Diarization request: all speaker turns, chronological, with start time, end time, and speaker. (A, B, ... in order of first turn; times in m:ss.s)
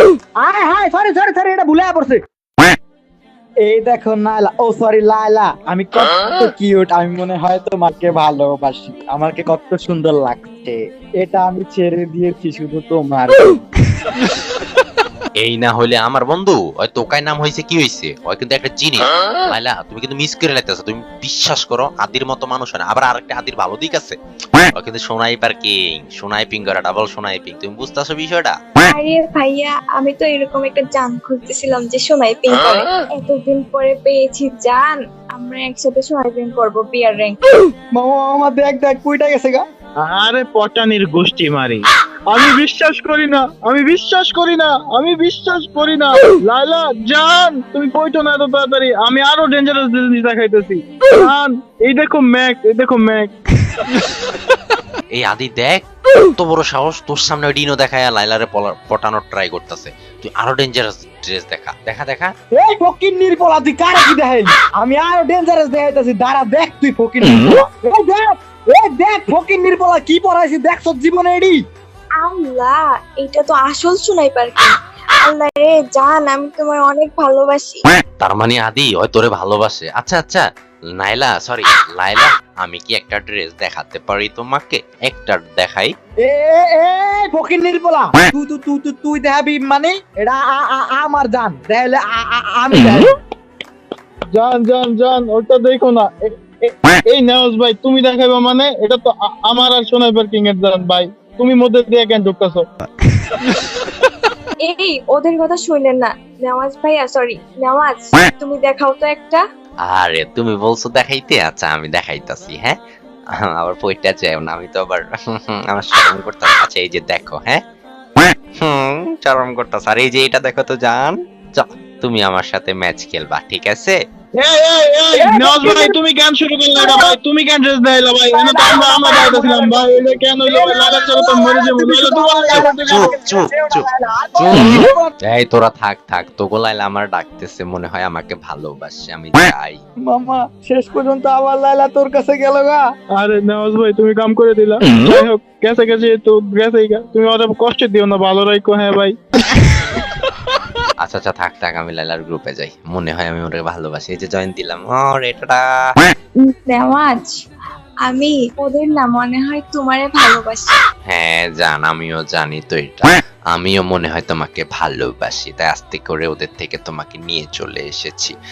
0:00.4-0:02.2 A
0:03.6-0:13.6 A
0:15.4-0:24.2 B
0:24.8-0:28.6 B
0:28.9-0:37.5 C
0:38.0-0:39.6 A
0:40.0-0:53.3 D
0:55.1-1:02.3 B
1:02.6-1:11.6 A
1:12.2-1:17.8 C
1:18.2-1:25.9 B
1:26.2-1:33.1 A
1:34.3-1:42.7 D
1:44.6-1:49.4 C
1:49.8-1:52.8 B
1:53.3-1:57.6 B
1:58.6-2:04.0 B
2:04.4-2:13.2 D
2:05.2-2:06.0 A
2:06.8-2:07.2 A
2:08.3-2:15.1 A
2:12.5-2:19.8 B
2:20.1-2:22.8 A
2:23.1-2:29.2 D
2:31.0-2:35.9 B
2:36.4-2:37.4 C
2:38.0-2:40.8 C
2:41.1-2:48.4 B